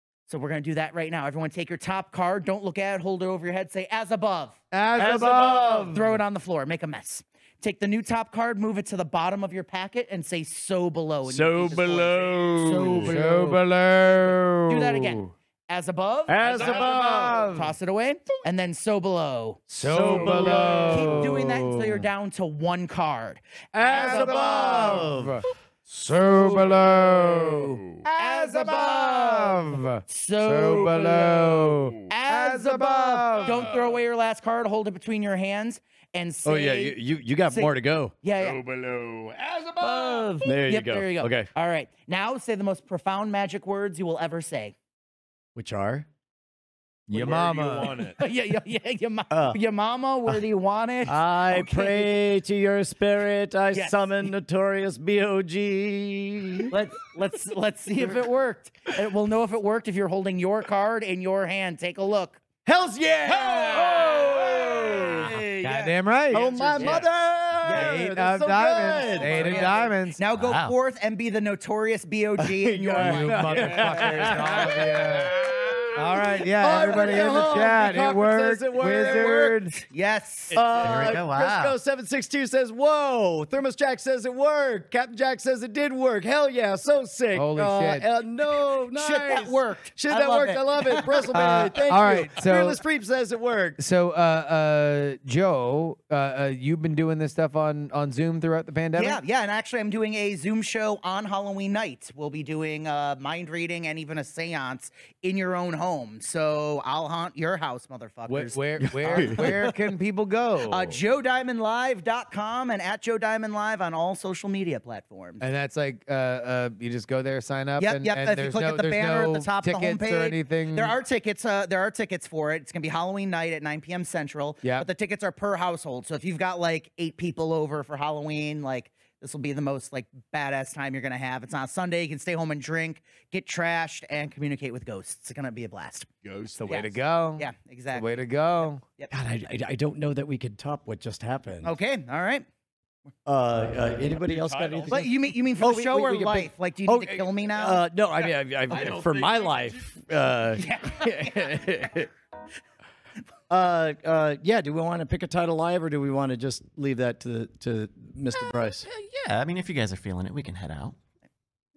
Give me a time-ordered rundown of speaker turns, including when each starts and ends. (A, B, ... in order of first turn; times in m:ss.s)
0:00.3-0:13.5 A
0:04.7-0:06.1 B
0:05.0-0:05.9 C
0:11.2-0:13.2 C
0:12.6-0:13.1 D
0:13.0-0:15.2 B
0:14.7-0:25.1 A
0:16.3-0:17.5 C
0:16.6-0:17.7 B
0:19.7-0:22.1 B
0:19.7-0:21.4 C
0:23.7-0:33.6 B
0:23.8-0:25.4 C
0:26.4-0:27.9 D
0:28.2-0:31.6 A
0:31.6-0:32.1 D
0:32.1-0:38.6 A
0:33.4-0:34.0 D
0:36.4-0:38.1 C
0:38.4-0:40.5 D
0:39.8-0:44.7 A
0:40.4-0:41.5 C
0:45.5-0:46.1 C
0:47.1-0:47.9 B
0:47.1-0:48.2 D
0:47.9-0:52.1 A
0:49.3-0:49.6 C
0:51.1-0:56.8 C
0:53.7-0:54.3 A
0:56.7-1:02.4 A
1:02.6-1:09.8 C
1:03.3-1:04.0 D
1:05.6-1:06.5 B
1:06.4-1:07.1 A
1:07.6-1:08.0 A
1:07.7-1:10.2 B
1:08.8-1:14.9 A
1:10.3-1:10.8 E
1:12.4-1:19.6 C
1:13.0-1:15.4 B
1:13.6-1:14.0 D
1:15.9-1:19.7 B
1:16.6-1:17.8 A
1:18.8-1:21.1 A
1:20.5-1:33.8 C
1:20.8-1:21.8 E
1:27.3-1:28.1 B
1:28.9-1:31.5 A
1:31.3-1:32.8 B
1:33.8-1:39.2 B
1:39.0-1:49.6 A
1:48.3-1:51.0 B
1:48.8-1:49.6 C
1:50.6-1:55.4 A
1:55.4-2:01.0 B
1:57.8-2:16.1 A
2:16.2-2:16.8 D
2:16.6-2:18.8 B
2:16.6-2:18.2 A
2:19.1-2:21.7 C
2:21.6-2:22.4 A
2:23.2-2:32.1 C
2:24.2-2:25.1 D
2:24.9-2:27.8 A
2:28.7-2:29.9 D
2:30.6-2:32.0 A
2:33.5-2:38.9 C
2:38.3-2:41.0 E